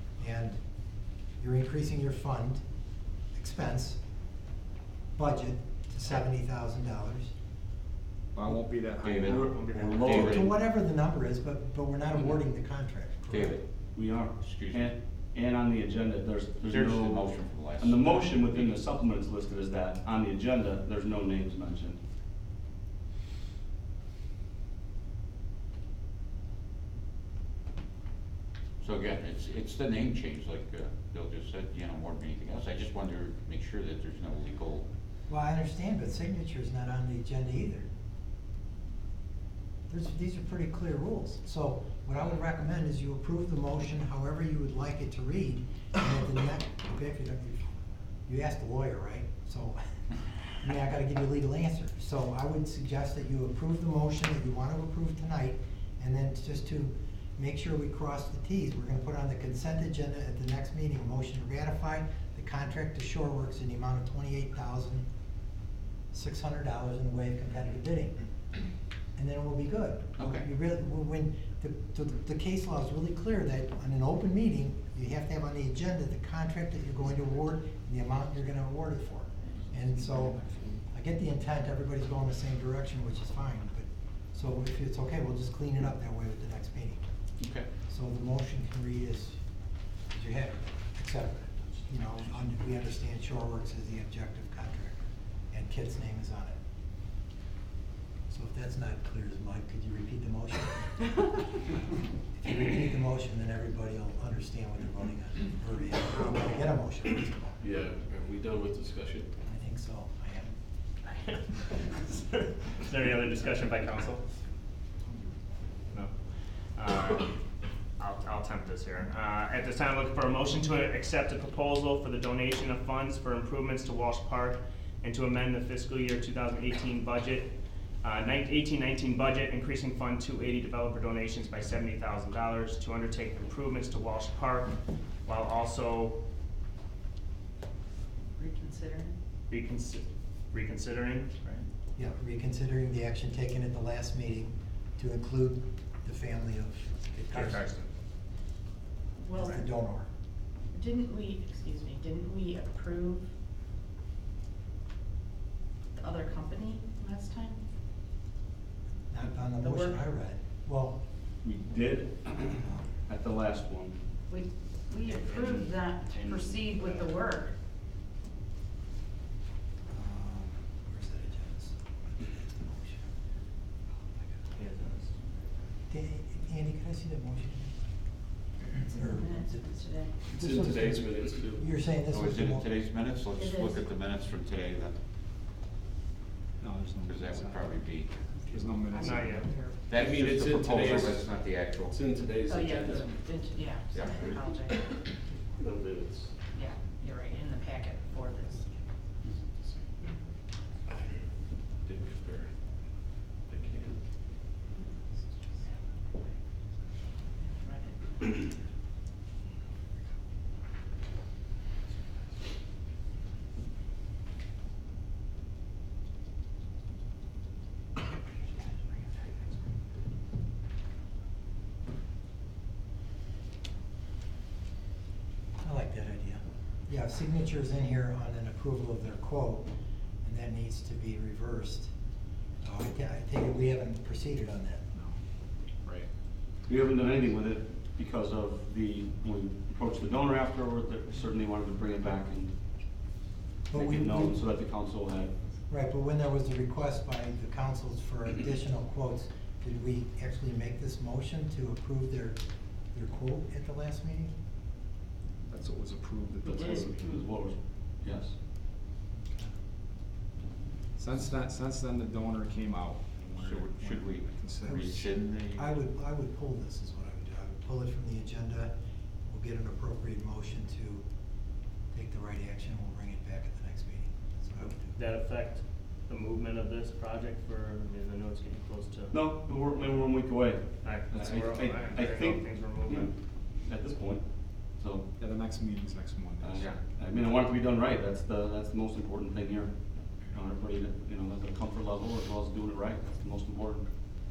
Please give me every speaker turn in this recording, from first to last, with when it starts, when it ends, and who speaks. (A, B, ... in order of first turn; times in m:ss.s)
0:00.2-0:00.6 A
0:01.4-0:02.6 A
0:03.4-0:04.0 A
0:05.2-0:07.3 A
0:08.3-0:09.6 B
0:09.0-0:10.6 C
0:09.2-0:10.4 D
0:09.4-0:10.2 E
0:10.0-0:13.6 A
0:13.3-0:13.6 C
0:14.0-0:22.0 D
0:14.4-0:14.9 C
0:16.7-0:18.8 C
0:28.8-0:34.9 C
0:35.3-0:37.9 A
0:39.9-0:47.7 A
0:48.3-0:49.8 A
0:50.6-1:05.1 A
1:06.1-1:08.2 A
1:09.2-1:27.0 A
1:10.2-1:10.5 C
1:20.4-1:20.7 B
1:27.4-1:27.7 C
1:27.9-1:29.4 A
1:30.1-1:34.9 A
1:35.5-1:36.6 A
1:38.3-1:41.1 A
1:42.3-1:47.6 A
1:47.6-1:49.3 F
1:49.5-1:50.6 A
1:51.1-1:54.2 E
1:56.8-1:57.4 E
1:58.0-2:07.5 E
2:08.0-2:16.2 E
2:18.3-2:19.2 G
2:19.5-2:21.7 E
2:22.0-2:27.6 A
2:27.3-2:27.9 E
2:29.2-2:29.6 G
2:29.3-2:30.1 A
2:30.7-2:33.3 G
2:35.9-2:37.6 G
2:39.1-2:41.0 A
2:39.5-2:40.0 G
2:41.4-2:44.0 D
2:44.3-2:47.6 G
2:45.1-2:47.1 D
2:49.9-2:51.8 A
2:54.5-2:55.1 E
2:55.9-2:57.7 A
2:58.8-3:00.2 G
2:58.8-2:59.7 A
3:00.2-3:02.6 A
3:00.3-3:01.7 F
3:02.1-3:05.0 C
3:03.3-3:03.8 G
3:06.6-3:07.7 B
3:07.0-3:08.3 C
3:08.4-3:09.9 G
3:08.5-3:09.5 B
3:09.0-3:09.5 E
3:09.9-3:11.9 C
3:09.9-3:13.1 F
3:12.4-3:14.9 G
3:13.9-3:14.4 C
3:15.5-3:16.4 F
3:16.5-3:18.8 G
3:20.9-3:21.2 F
3:21.7-3:22.8 F
3:23.4-3:24.0 F
3:27.4-3:28.4 G
3:45.6-3:49.7 A
3:50.2-3:51.9 A
3:52.6-3:54.8 A
3:55.8-3:56.1 B
3:56.7-4:02.5 D
4:03.7-4:04.3 A
4:03.7-4:05.3 D
4:05.7-4:12.4 A
4:12.9-4:14.3 A
4:15.5-4:17.0 B
4:16.4-4:18.3 D
4:17.0-4:17.3 G
4:21.0-4:25.2 B
4:23.4-4:25.8 C
4:25.6-4:28.7 A
4:29.2-4:31.0 A
4:31.9-4:34.9 A
4:34.9-4:39.2 E
4:39.1-4:45.1 D
4:40.8-4:43.1 E
4:45.2-4:46.8 B
4:46.4-4:53.9 D